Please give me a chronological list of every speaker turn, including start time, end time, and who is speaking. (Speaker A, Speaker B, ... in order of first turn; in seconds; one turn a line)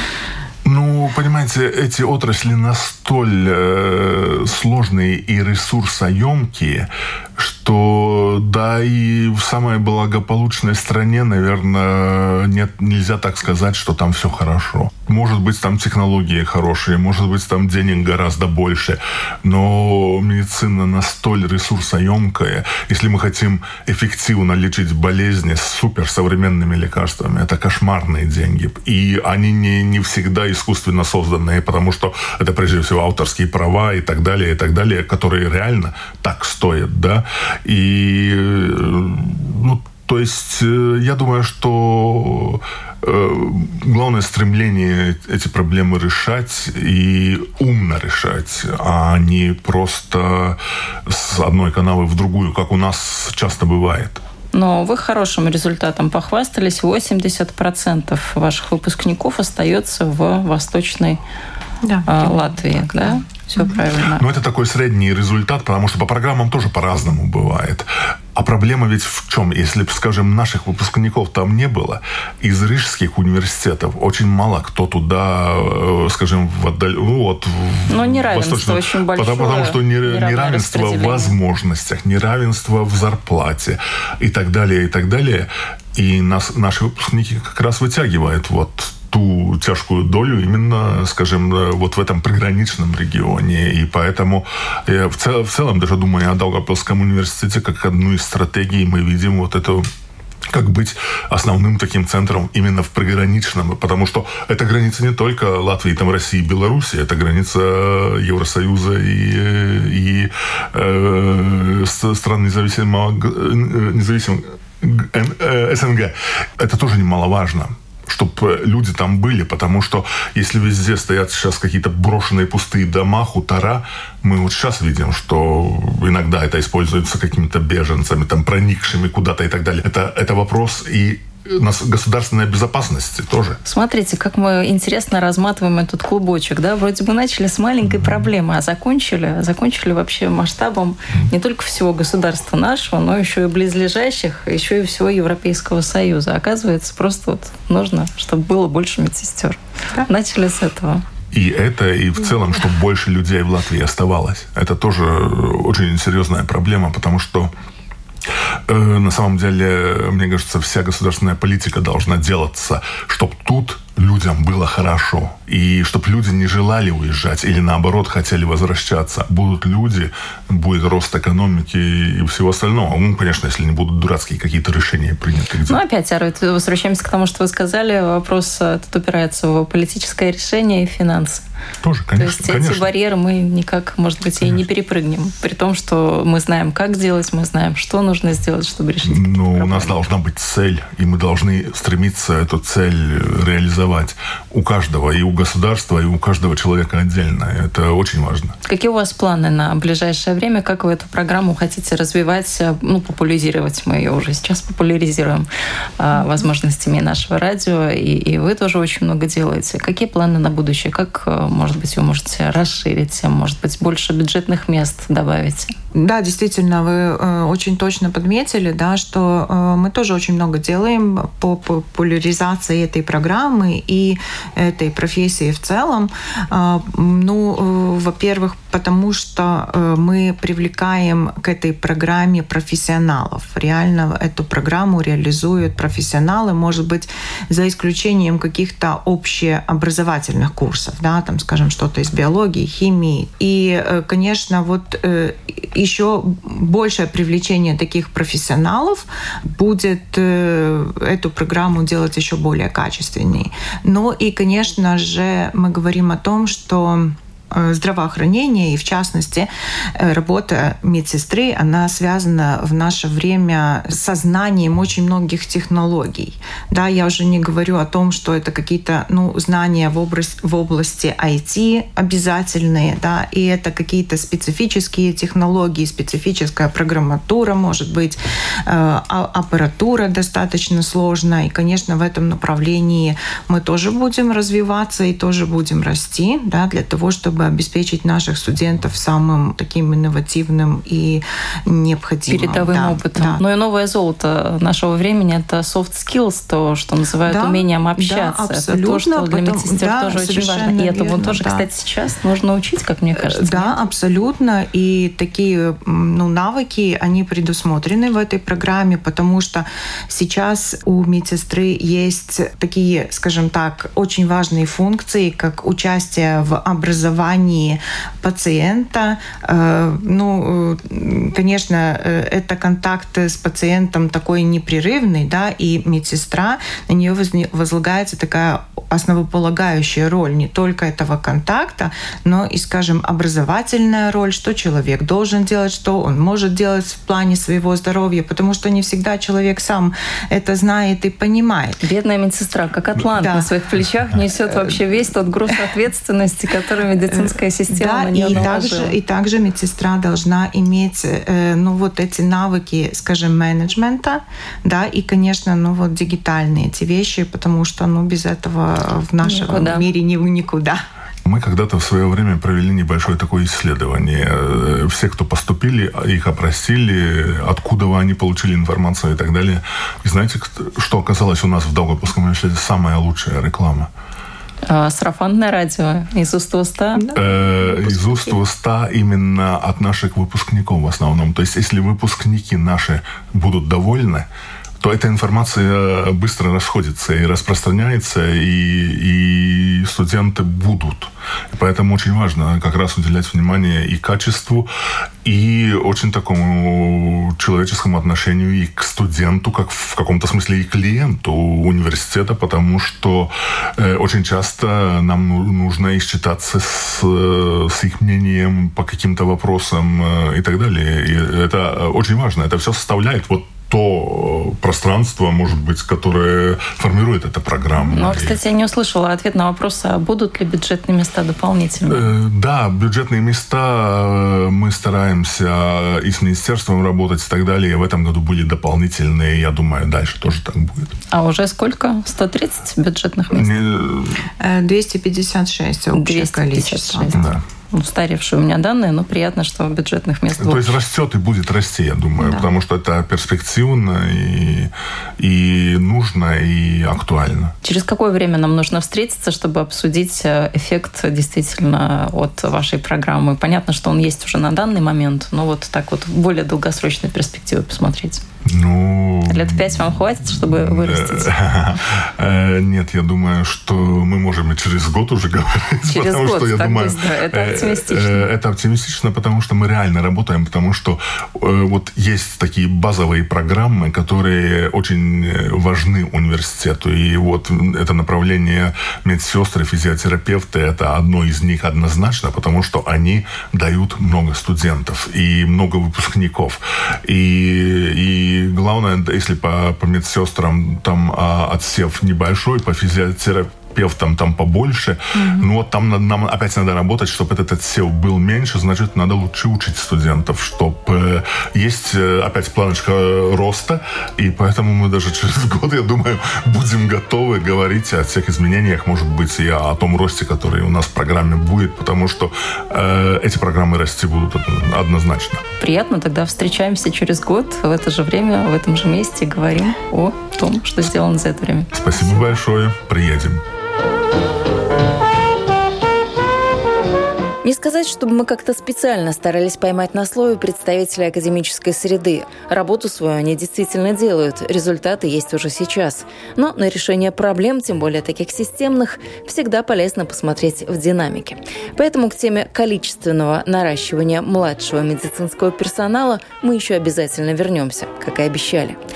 Speaker A: 0.6-54.2
Speaker B: 54.5-61.2
Speaker C: 61.8-63.8
Speaker B: 62.0-64.2
Speaker A: 64.1-99.8
Speaker B: 77.9-81.3
Speaker A: 100.5-133.6
Speaker B: 133.6-151.0
Speaker A: 137.9-138.2
Speaker A: 151.3-157.5
Speaker A: 158.7-175.8
Speaker B: 175.7-181.4
Speaker A: 181.8-182.9
Speaker B: 182.2-190.0
Speaker A: 189.0-198.5
Speaker B: 198.6-205.4
Speaker B: 206.0-215.7
Speaker C: 206.1-206.4
Speaker C: 215.9-293.4
Speaker B: 292.3-303.8
Speaker C: 297.2-301.6
Speaker C: 303.1-341.8
Speaker B: 341.8-348.9
Speaker C: 343.1-343.5
Speaker C: 347.1-360.8
Speaker B: 359.2-359.9
Speaker A: 361.2-373.9
Speaker B: 374.6-377.1
Speaker C: 376.9-378.4
Speaker A: 377.1-384.3
Speaker A: 384.8-394.7
Speaker A: 395.2-418.4
Speaker B: 417.9-422.1
Speaker A: 421.9-430.9
Speaker B: 431.1-433.6
Speaker A: 433.3-434.2
Speaker C: 434.4-437.2
Speaker B: 435.9-440.8
Speaker A: 437.1-437.4
Speaker A: 440.4-447.5
Speaker B: 442.2-442.5
Speaker B: 447.6-458.2
Speaker A: 458.4-515.4
Speaker B: 459.3-461.3
Speaker B: 465.9-468.3
Speaker C: 495.1-495.5
Speaker B: 515.6-522.2
Speaker A: 521.7-523.4
Speaker B: 527.4-548.8